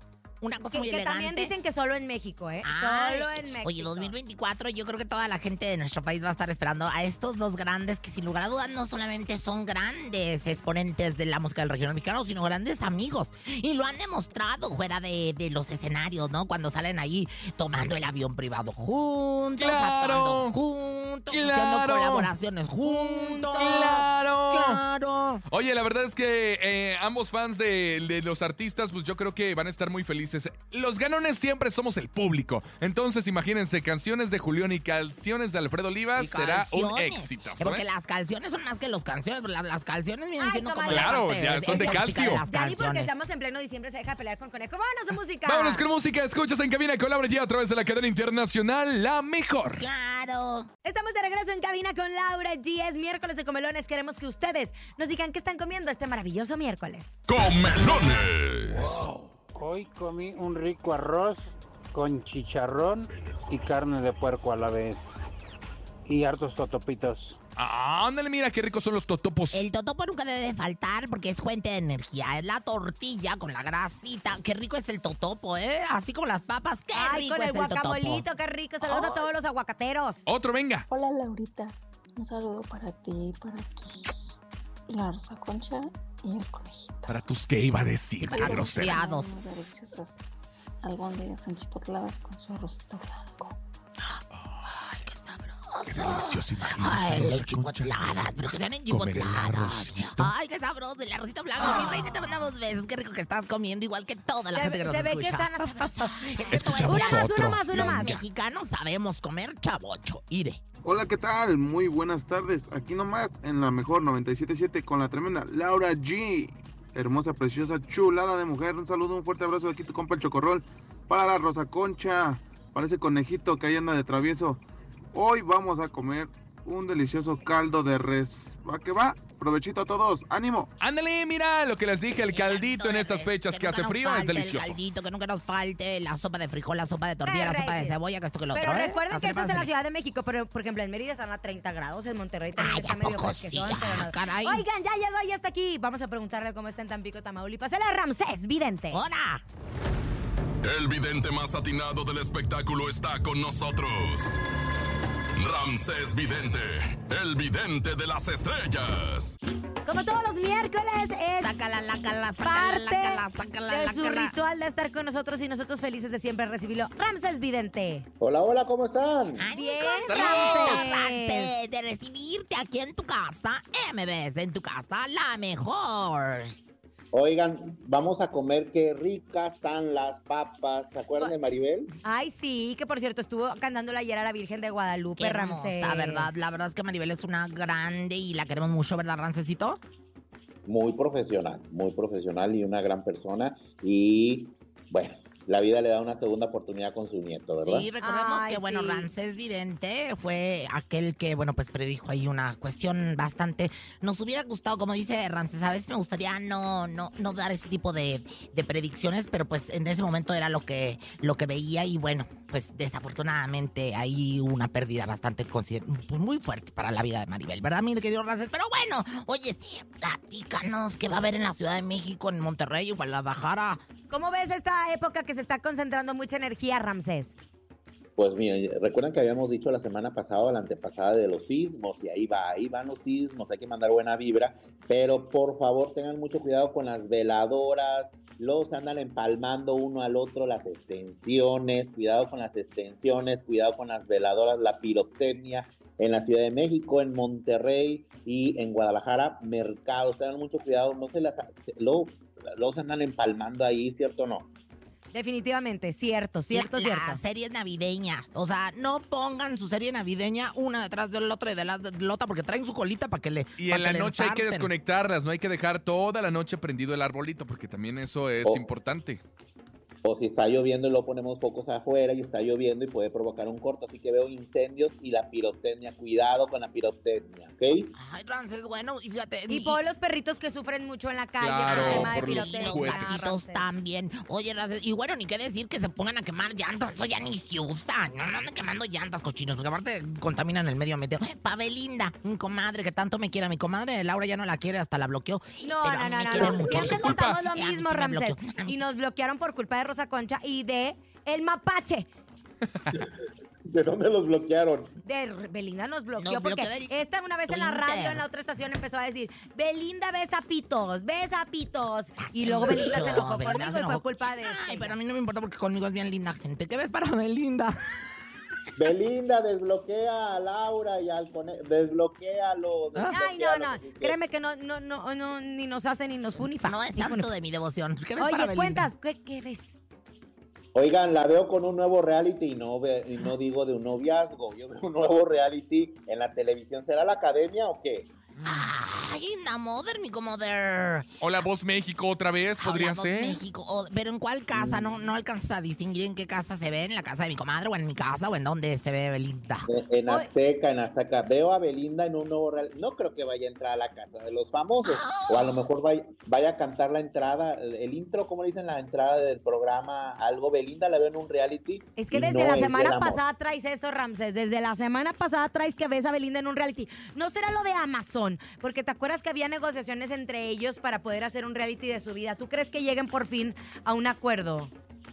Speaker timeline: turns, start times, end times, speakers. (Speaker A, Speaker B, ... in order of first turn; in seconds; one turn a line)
Speaker A: 0.4-1.5
Speaker B: 0.7-4.2
Speaker A: 2.6-25.4
Speaker C: 19.6-20.5
Speaker C: 21.3-22.3
Speaker B: 22.8-24.1
Speaker C: 23.5-24.8
Speaker C: 25.5-37.8
Speaker A: 36.1-43.1
Speaker B: 40.4-45.8
Speaker C: 40.9-42.4
Speaker C: 45.4-49.8
Speaker A: 49.8-50.7
Speaker B: 50.8-57.1
Speaker D: 57.3-59.0
Speaker E: 58.7-65.2
Speaker E: 66.0-67.4
Speaker C: 67.5-69.7
Speaker A: 69.5-78.2
Speaker B: 76.9-80.2
Speaker A: 78.8-79.3
Speaker C: 80.3-80.9
Speaker F: 80.9-84.3
Speaker F: 84.9-87.2
Speaker C: 87.1-89.0
Speaker A: 88.3-89.3
Speaker F: 88.3-90.2
Speaker F: 90.8-93.5
Speaker C: 94.4-94.6
Speaker A: 94.7-110.6
Speaker C: 95.9-98.3
Speaker C: 98.9-100.3
Speaker B: 104.5-106.1
Speaker C: 106.5-108.1
Speaker B: 106.8-108.2
Speaker G: 110.8-124.6
Speaker G: 125.1-130.7
Speaker C: 130.8-134.8
Speaker A: 132.3-139.7
Speaker B: 137.2-138.0
Speaker B: 138.5-149.0
Speaker A: 142.6-144.6
Speaker A: 148.9-149.4
Speaker D: 150.6-154.3
Speaker D: 155.3-159.3
Speaker B: 159.8-161.5
Speaker A: 161.4-164.3
Speaker B: 162.4-168.1
Speaker H: 168.2-169.4
Speaker A: 169.3-176.7
Speaker B: 169.5-171.5
Speaker C: 170.1-170.8
Speaker H: 177.1-181.9
Speaker B: 182.0-186.3
Speaker A: 185.2-189.8
Speaker H: 190.7-197.9
Speaker A: 197.6-223.8
Speaker B: 198.0-199.1
Speaker B: 224.1-227.3
Speaker H: 228.2-254.5
Speaker B: 255.1-257.2
Speaker A: 256.5-264.7
Speaker C: 263.6-269.2
Speaker H: 270.0-277.9
Speaker A: 277.9-279.8
Speaker B: 279.5-283.6
Speaker C: 281.4-283.2
Speaker A: 281.6-298.8
Speaker B: 295.6-302.1
Speaker C: 296.6-297.4
Speaker H: 303.7-304.9
Speaker B: 305.0-314.9
Speaker A: 306.2-306.9
Speaker A: 307.5-308.2
Speaker A: 312.2-317.8
Speaker H: 312.7-313.2
Speaker H: 318.8-324.2
Speaker B: 323.1-327.3
Speaker A: 326.6-328.9
Speaker B: 328.2-329.7
Speaker H: 330.7-338.1
Speaker A: 338.4-341.1
Speaker C: 341.2-343.4
Speaker A: 342.6-349.7
Speaker H: 344.5-344.9
Speaker H: 349.7-363.2
Speaker A: 354.8-355.6
Speaker B: 362.0-374.7